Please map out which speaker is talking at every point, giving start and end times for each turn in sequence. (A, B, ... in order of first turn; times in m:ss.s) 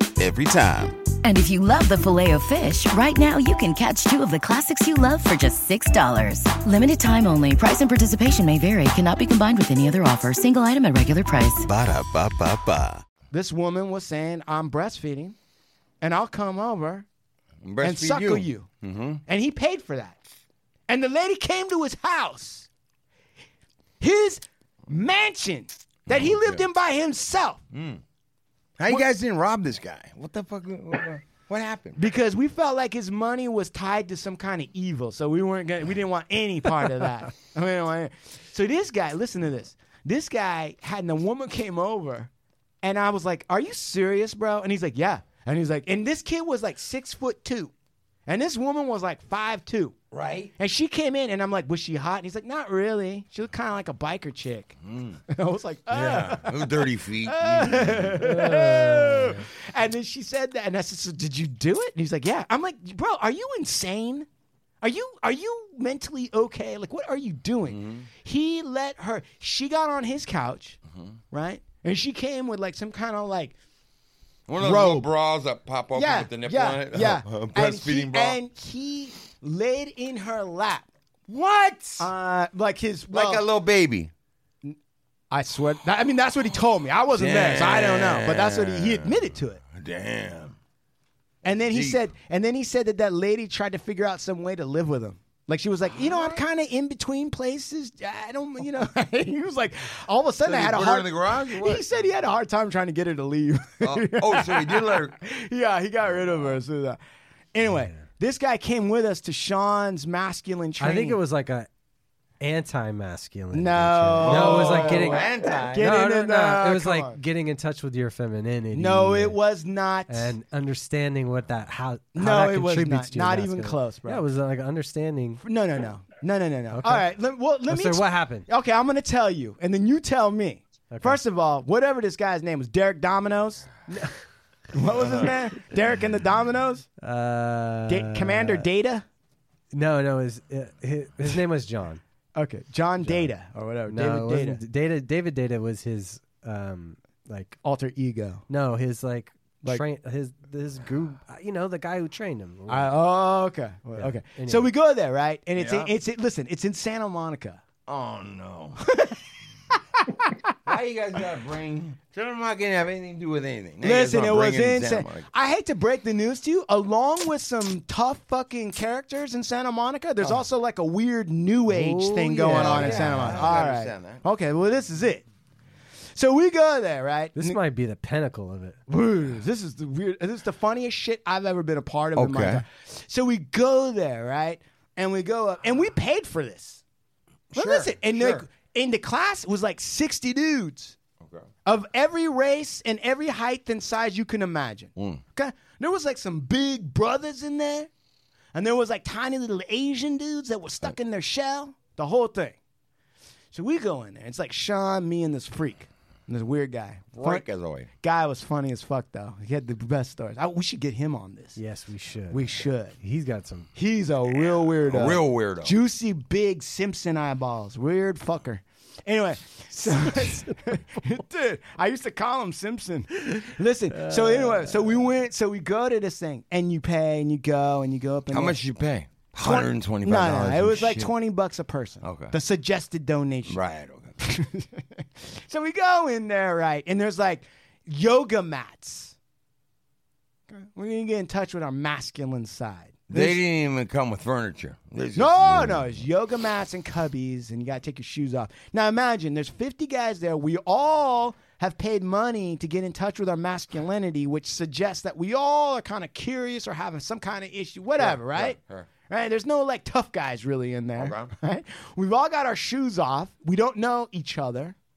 0:00.2-0:01.0 A
0:01.2-0:11.7 B
0:11.6-0:13.0 A
0:13.3-0:15.4 C
0:16.0-0:17.0 C
0:17.6-0:19.2 D
0:17.8-0:18.7 C
0:19.2-0:20.2 C
0:20.9-0:22.7 C
0:24.0-0:27.6 C
0:26.1-0:26.6 D
0:27.7-0:28.0 D
0:28.8-0:32.0 D
0:32.0-0:42.3 C
0:42.8-0:47.7 C
0:48.3-0:49.9 C
0:50.1-0:50.5 D
0:50.6-0:54.8 C
0:54.8-0:55.2 D
0:55.3-1:04.3 C
0:55.9-0:58.2 D
0:58.2-0:59.4 E
1:04.8-1:10.8 C
1:07.6-1:08.1 D
1:11.3-1:13.6 C
1:14.5-1:18.4 D
1:14.6-1:15.1 C
1:15.9-1:20.9 C
1:21.3-1:22.1 D
1:22.0-1:23.5 C
1:23.1-1:24.1 D
1:25.3-1:29.6 C
1:27.1-1:30.6 D
1:31.4-1:32.0 D
1:31.4-1:47.0 C
1:40.4-1:41.8 D
1:43.8-1:45.2 D
1:47.5-1:51.2 C
1:50.8-1:51.7 E
1:52.4-1:59.4 E
1:53.5-1:57.2 C
1:54.2-1:55.9 D
1:58.7-2:00.3 C
2:00.1-2:05.4 E
2:02.1-2:04.2 C
2:05.4-2:13.7 C
2:06.7-2:07.1 E
2:07.7-2:08.4 E
2:10.9-2:11.2 E
2:14.7-2:16.9 C
2:17.0-2:18.7 E
2:17.9-2:19.0 C
2:19.7-2:22.0 E
2:22.4-2:24.6 C
2:23.0-2:23.3 E
2:23.9-2:27.6 E
2:27.6-2:28.4 C
2:28.5-2:33.0 E
2:32.7-2:37.6 C
2:34.0-2:34.7 E
2:35.6-2:35.9 D
2:37.9-2:38.8 D
2:38.9-2:39.2 C
2:40.0-2:40.3 C
2:40.6-2:45.3 D
2:43.8-2:55.2 C
2:51.7-2:53.5 E
2:52.5-2:54.2 D
2:56.1-2:57.6 C
2:57.4-2:58.8 E
2:58.9-3:06.8 C
3:02.2-3:02.6 D
3:07.5-3:08.4 D
3:07.5-3:11.0 C
3:11.2-3:11.5 D
3:11.6-3:17.9 C
3:15.0-3:15.2 D
3:18.5-3:22.6 C
3:23.5-3:27.4 C
3:27.1-3:27.9 D
3:28.0-3:31.6 C
3:31.6-3:33.7 E
3:32.3-3:33.0 C
3:33.7-3:48.6 C
3:34.7-3:35.8 D
3:40.0-3:40.3 E
3:43.9-3:44.9 E
3:48.3-3:51.1 D
3:49.4-3:53.6 C
3:52.0-3:52.3 D
3:53.4-3:54.2 D
3:54.2-3:59.2 C
4:00.5-4:03.4 C
4:03.1-4:06.0 D
4:05.2-4:24.7 C
4:18.0-4:18.9 D
4:21.0-4:21.3 D